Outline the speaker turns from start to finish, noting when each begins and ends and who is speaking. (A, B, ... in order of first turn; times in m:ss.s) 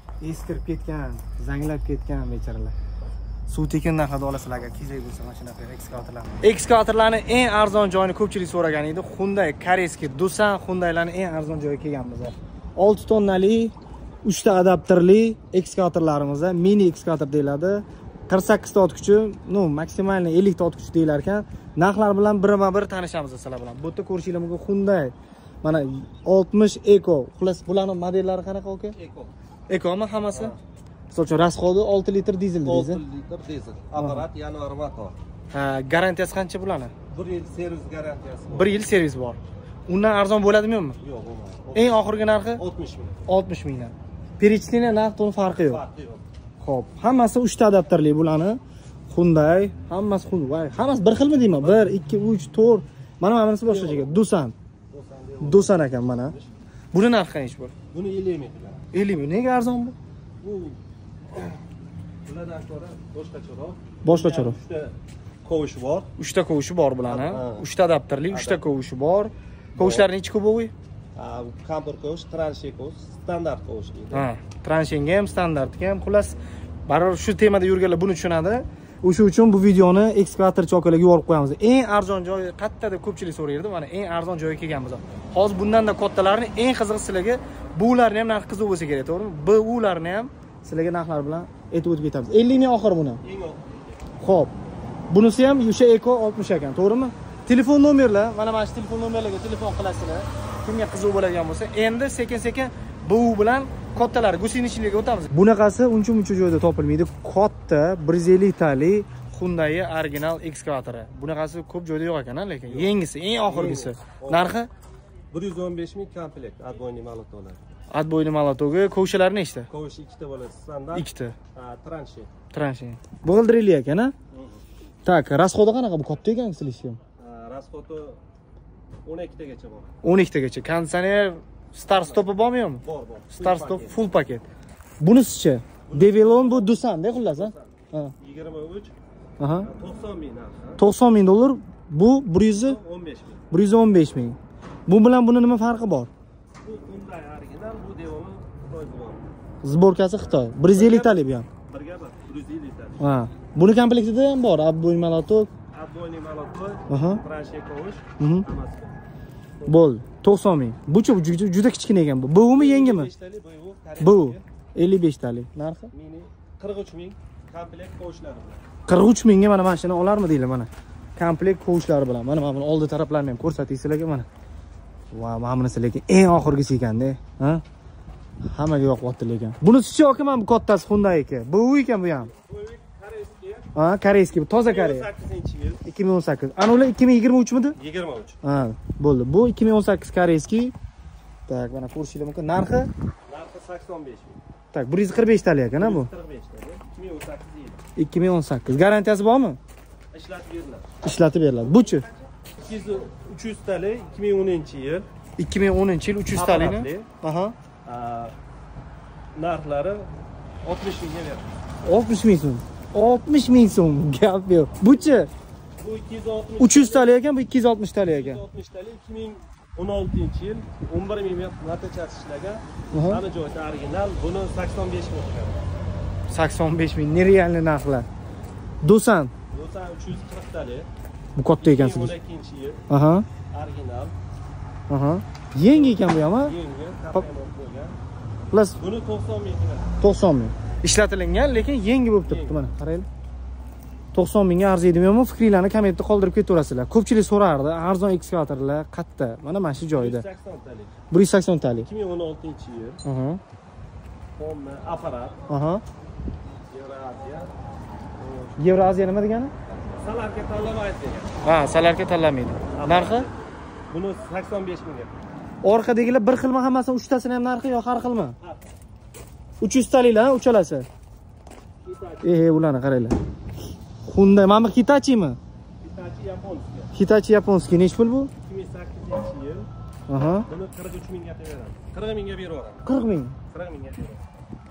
0:00.2-0:02.7 A
0:03.5-0:13.7 A
0:14.2-0:28.9 A
0:28.9-0:29.3 B
0:29.7-0:30.6 A
0:31.1-0:33.0 A
0:32.6-0:35.1 B
0:34.0-0:34.2 A
0:35.5-0:36.9 A
0:37.1-0:38.8 B
0:38.5-0:41.0 A
0:41.0-0:43.2 B
0:41.7-0:42.6 A
0:43.2-0:45.8 A
0:45.6-0:46.2 B
0:46.6-0:48.6 A
0:49.1-0:54.5 A
0:53.6-0:54.2 B
0:54.9-0:56.5 B
0:55.4-0:56.3 A
0:56.9-0:57.7 A
0:57.9-0:58.8 B
0:58.9-1:00.0 A
1:00.4-1:00.8 B
1:02.2-1:06.1 B
1:04.0-1:04.6 A
1:06.2-1:10.7 A
1:07.0-1:07.6 B
1:08.3-1:08.6 B
1:09.8-1:10.1 B
1:11.1-1:14.3 B
1:14.1-1:33.2 A
1:33.2-1:33.8 B
1:34.2-1:34.5 A
1:35.1-1:54.7 A
1:52.7-1:52.9 B
1:53.4-1:54.4 B
1:55.3-1:57.6 B
1:57.9-1:59.7 A
1:59.7-2:02.3 B
2:00.9-2:01.4 A
2:02.5-2:04.1 A
2:04.3-2:04.6 B
2:05.0-2:07.0 A
2:07.2-2:08.2 B
2:09.0-2:09.9 B
2:10.0-2:14.4 A
2:11.9-2:12.3 B
2:12.8-2:14.1 B
2:15.0-2:18.1 A
2:15.9-2:18.9 B
2:19.4-2:19.7 A
2:19.6-2:20.8 B
2:20.8-2:22.8 A
2:22.5-2:23.4 B
2:23.5-2:26.1 A
2:26.6-2:29.3 B
2:29.6-2:31.5 A
2:30.7-2:33.0 B
2:33.0-2:35.5 A
2:35.7-2:39.0 B
2:36.9-2:37.2 A
2:38.2-2:38.4 A
2:39.6-2:43.1 A
2:42.5-2:44.4 B
2:44.0-2:45.9 A
2:45.9-2:48.6 B
2:48.9-2:54.3 A
2:55.1-2:57.6 A
2:58.5-3:02.3 A
3:02.3-3:03.7 B
3:03.7-3:05.1 A
3:04.7-3:05.8 B
3:05.8-3:07.8 A
3:07.8-3:08.4 B
3:08.4-3:10.7 A
3:11.5-3:12.9 A
3:13.3-3:14.4 B
3:14.7-3:16.1 A
3:15.8-3:17.8 B
3:18.0-3:19.6 A
3:20.1-3:20.8 B
3:21.0-3:22.0 A
3:22.6-3:25.1 B
3:25.4-3:27.5 A
3:26.3-3:27.1 B
3:27.8-3:28.3 B
3:29.3-3:30.1 B
3:30.6-3:31.5 B
3:31.8-3:35.3 A
3:35.8-3:37.1 B
3:36.6-3:38.4 A
3:38.1-3:45.6 B
3:42.9-3:43.2 A
3:46.3-3:48.1 A
3:48.8-3:49.3 A
3:49.5-3:50.9 B
3:51.4-3:52.1 A
3:51.6-3:52.8 B
3:52.9-3:53.3 A
3:53.5-3:54.1 B
3:54.9-3:56.5 A
3:55.7-3:58.0 B
3:58.5-3:58.8 A
3:58.8-3:59.9 B
4:00.0-4:03.1 A
4:02.3-4:02.6 B
4:04.1-4:10.2 A
4:10.0-4:10.9 B
4:11.1-4:11.9 A
4:11.8-4:13.0 B
4:13.0-4:13.4 A
4:14.4-4:15.4 B
4:15.5-4:15.8 A
4:16.7-4:17.5 B
4:18.2-4:18.6 B
4:18.6-4:19.5 A
4:20.0-4:21.4 B
4:21.4-4:23.3 A
4:22.7-4:23.4 B
4:23.9-4:25.2 B
4:25.6-4:28.4 A
4:28.4-4:28.7 B
4:29.6-4:30.8 A
4:31.8-4:32.3 B
4:32.2-4:33.2 A
4:34.0-4:35.4 A
4:35.8-4:36.9 B
4:36.9-4:38.3 A
4:38.4-4:39.7 B
4:40.1-4:40.4 A
4:40.4-4:42.8 B
4:42.8-4:43.4 A
4:43.5-4:44.2 B